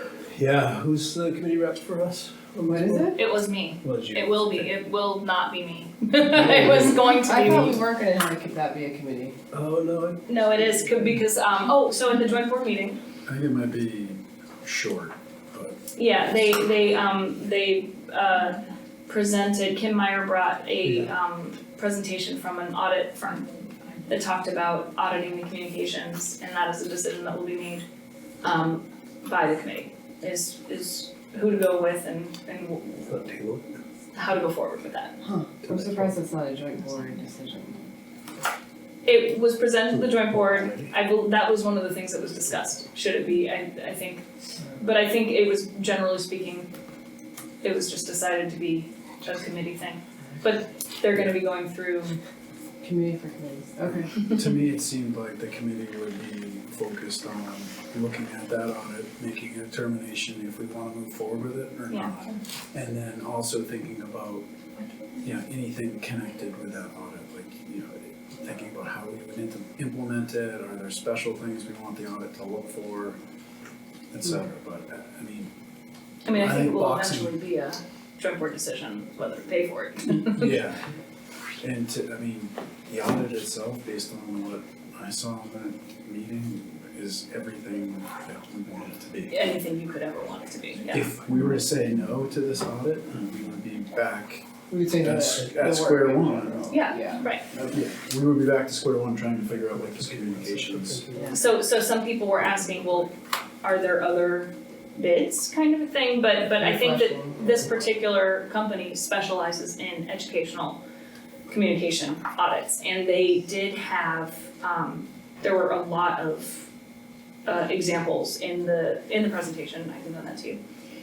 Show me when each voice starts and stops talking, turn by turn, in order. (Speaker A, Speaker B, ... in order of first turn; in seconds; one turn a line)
Speaker A: 0.2-4.7
Speaker B: 2.6-3.2
Speaker C: 3.1-7.8
Speaker A: 6.3-7.0
Speaker B: 7.1-9.3
Speaker A: 9.5-10.2
Speaker C: 10.2-13.0
Speaker D: 13.3-15.8
Speaker C: 15.9-23.5
Speaker C: 24.1-27.8
Speaker C: 28.4-33.2
Speaker A: 33.1-33.7
Speaker C: 34.1-35.2
Speaker B: 35.2-37.9
Speaker A: 35.6-36.1
Speaker C: 39.0-44.3
Speaker A: 40.3-40.9
Speaker C: 44.8-46.7
Speaker C: 47.6-52.2
Speaker B: 52.8-54.3
Speaker D: 54.2-64.5
Speaker C: 61.9-62.2
Speaker D: 65.2-73.2
Speaker D: 74.1-75.5
Speaker C: 76.2-80.5
Speaker D: 76.3-77.3
Speaker D: 80.3-80.8
Speaker D: 81.6-89.4
Speaker C: 89.3-91.1
Speaker D: 90.9-96.7
Speaker B: 94.7-97.3
Speaker C: 96.7-97.4
Speaker D: 97.5-101.1
Speaker A: 99.7-101.4
Speaker C: 101.3-103.1
Speaker C: 103.6-110.8
Speaker B: 106.5-107.5
Speaker C: 111.5-116.7
Speaker C: 117.4-120.6